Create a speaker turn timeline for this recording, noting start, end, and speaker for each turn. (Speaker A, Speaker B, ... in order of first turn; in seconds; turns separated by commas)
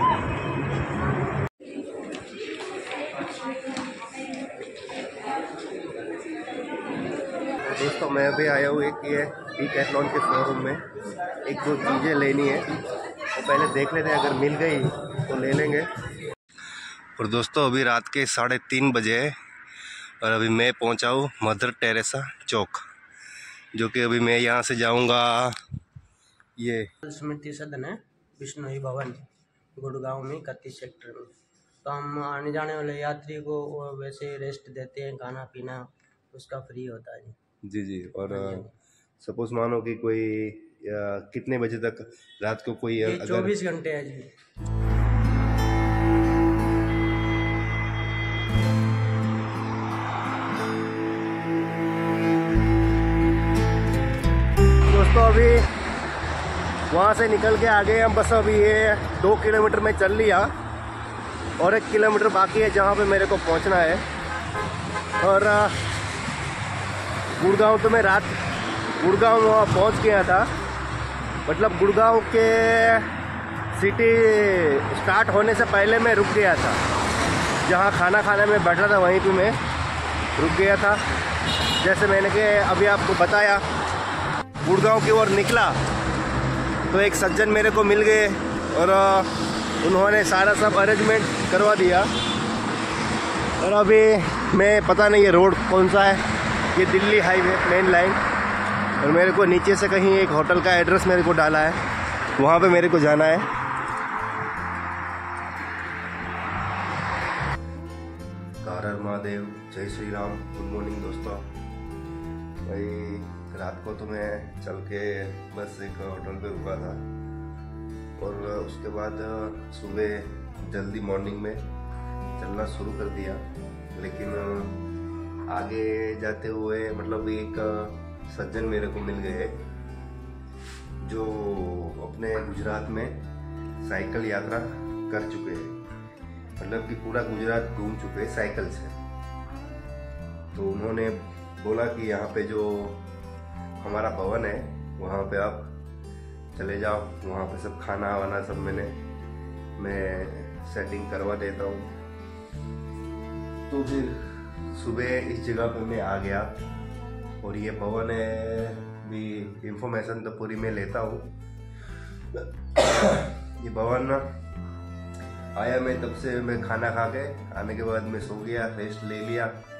Speaker A: 7.6-10.8, Speaker A: 11.4-12.7, Speaker A: 13.3-15.9, Speaker A: 17.1-19.4, Speaker A: 20.2-22.8, Speaker A: 23.7-25.6, Speaker A: 26.6-26.9, Speaker B: 27.0-29.2, Speaker B: 29.8-31.3, Speaker B: 31.8-37.4, Speaker A: 37.6-38.7, Speaker B: 38.3-38.7, Speaker A: 39.2-43.5, Speaker B: 43.0-44.3, Speaker A: 54.9-55.7, Speaker A: 56.9-60.5, Speaker A: 61.6-64.0, Speaker A: 65.2-65.8, Speaker A: 67.4-68.4, Speaker A: 69.0-70.5, Speaker A: 71.5-73.1, Speaker A: 73.7-76.8, Speaker A: 77.6-79.6, Speaker A: 80.4-81.0, Speaker A: 81.8-83.6, Speaker A: 84.6-85.8, Speaker A: 86.9-92.1, Speaker A: 93.6-96.2, Speaker A: 96.7-98.2, Speaker A: 99.0-101.8, Speaker A: 102.4-103.5, Speaker A: 108.6-111.5, Speaker A: 112.6-117.0, Speaker A: 118.2-121.6, Speaker A: 122.4-123.4, Speaker A: 123.9-124.8, Speaker A: 125.5-129.6, Speaker A: 131.0-133.2, Speaker A: 133.8-135.8, Speaker A: 136.6-139.0, Speaker A: 140.5-143.0, Speaker A: 143.8-145.7, Speaker A: 146.5-149.0, Speaker A: 149.8-151.9, Speaker A: 153.7-156.5, Speaker A: 157.4-161.3, Speaker A: 162.3-164.3, Speaker A: 165.5-169.6